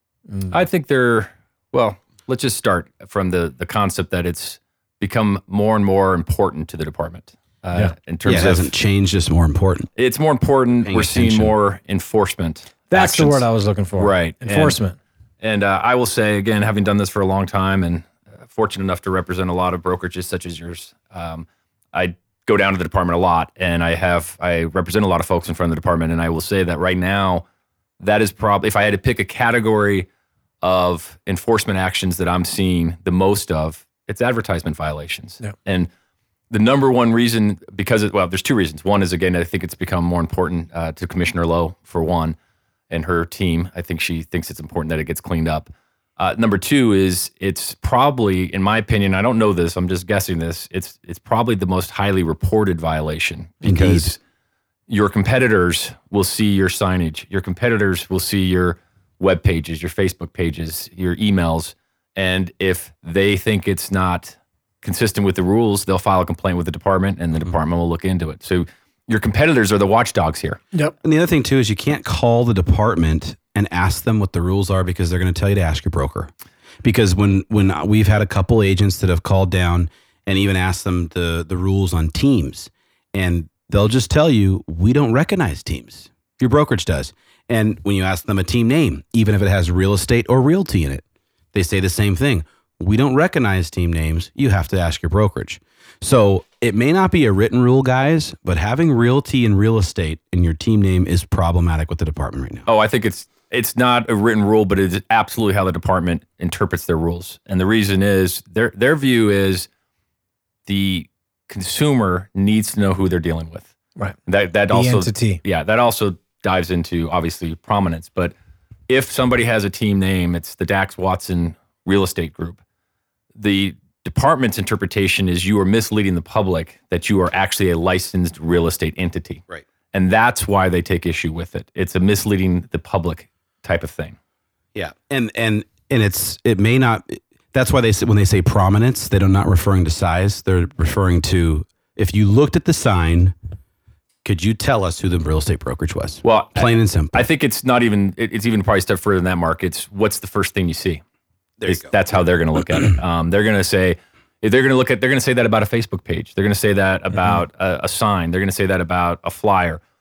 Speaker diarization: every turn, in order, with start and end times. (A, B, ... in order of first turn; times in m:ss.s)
0:00.3-0:00.6 A
0:00.5-0:08.8 B
0:08.2-0:09.9 C
0:10.0-0:13.5 B
0:10.8-0:11.6 C
0:12.9-0:15.0 A
0:14.0-0:14.8 B
0:15.4-0:27.4 B
0:28.0-0:30.1 B
0:30.6-0:35.9 B
0:36.5-0:42.4 B
0:42.9-0:54.2 B
0:53.6-0:54.1 C
0:54.9-1:10.6 B
1:11.0-1:16.3 C
1:16.8-1:42.7 C
1:42.7-1:49.7 B
1:50.7-1:53.7 B
1:54.3-1:58.3 B
1:54.7-1:55.4 A
1:58.9-2:02.6 B
2:03.4-2:14.2 B
2:14.8-2:23.4 C
2:24.2-2:27.2 C
2:26.2-2:31.0 B
2:31.6-2:31.9 C
2:31.6-2:39.8 B